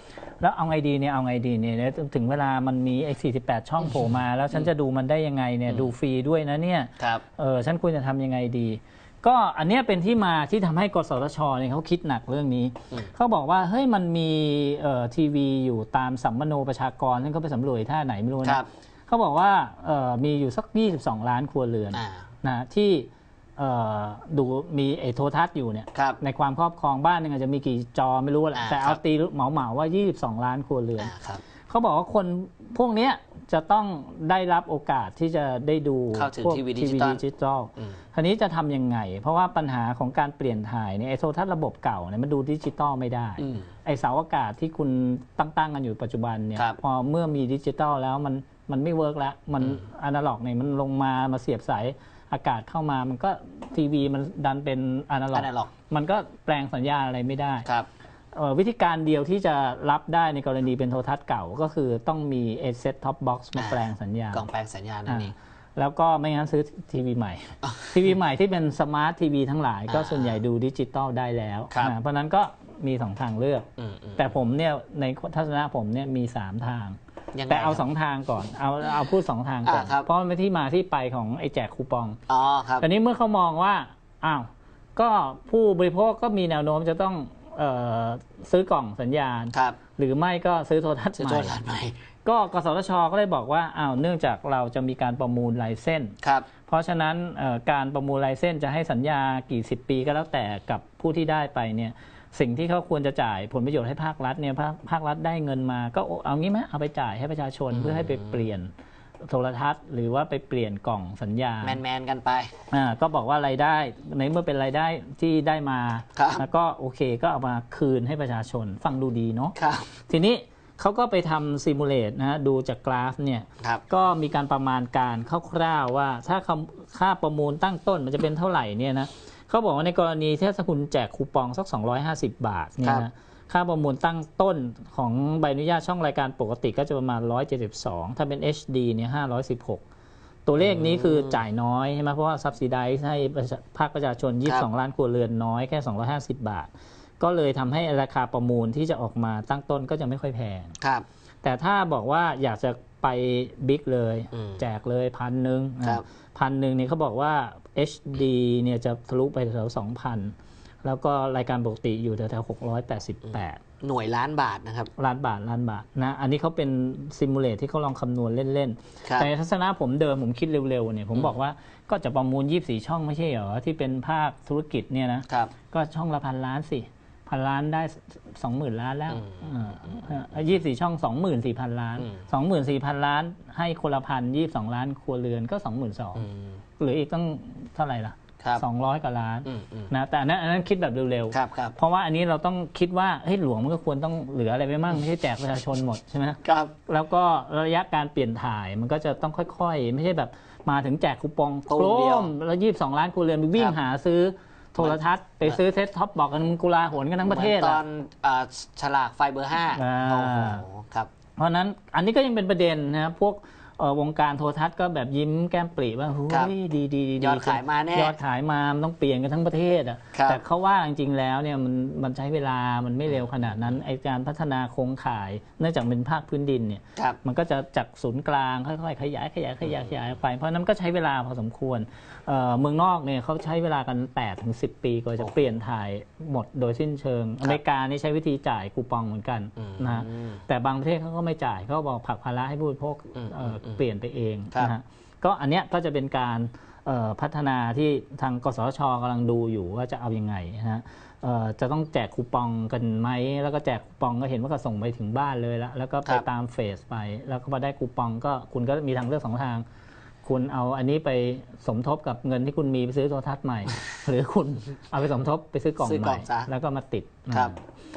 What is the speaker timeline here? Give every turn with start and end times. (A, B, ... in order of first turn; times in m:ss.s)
0:00.4-0:31.1 A
0:18.4-0:18.7 B
0:21.9-0:22.3 B
0:28.6-0:29.0 B
0:31.0-0:31.4 B
0:31.7-0:57.7 A
0:36.1-0:37.2 B
0:43.4-0:43.7 B
0:55.3-0:55.7 B
0:58.3-1:04.4 A
1:03.6-1:05.4 B
1:05.1-1:22.2 A
1:07.6-1:08.1 B
1:09.9-1:10.4 B
1:11.7-1:12.0 B
1:13.8-1:14.4 B
1:17.4-1:17.8 B
1:19.6-1:20.1 B
1:22.3-1:22.9 B
1:22.8-1:31.6 A
1:29.5-1:29.8 B
1:31.2-1:32.0 B
1:32.2-1:36.2 A
1:36.2-1:36.5 B
1:36.7-1:48.7 A
1:47.7-1:48.5 B
1:49.2-1:51.8 A
1:51.6-1:52.5 B
1:52.7-1:59.6 A
1:56.2-1:56.5 B
1:59.6-1:59.9 B
2:00.1-2:19.8 A
2:20.5-2:30.8 A
2:20.6-2:21.4 B
2:30.8-2:31.1 B
2:31.4-2:43.6 A
2:34.3-2:34.6 B
2:43.3-2:44.9 B
2:45.0-3:06.3 A
2:49.0-2:49.3 B
2:55.3-2:55.5 B
2:59.1-3:00.0 B
3:06.2-3:06.6 B
3:06.8-3:27.8 A
3:09.4-3:09.9 B
3:11.3-3:11.7 B
3:16.4-3:16.7 B
3:21.7-3:22.3 B
3:24.8-3:25.6 B
3:27.2-3:31.1 B
3:29.7-3:30.6 A
3:31.4-4:19.7 A
3:37.2-3:38.2 B
3:40.1-3:40.4 B
3:55.2-3:55.6 B
3:59.6-4:00.4 B
4:03.2-4:03.8 B
4:20.2-4:27.6 A
4:25.8-4:26.5 B
4:27.3-4:27.6 B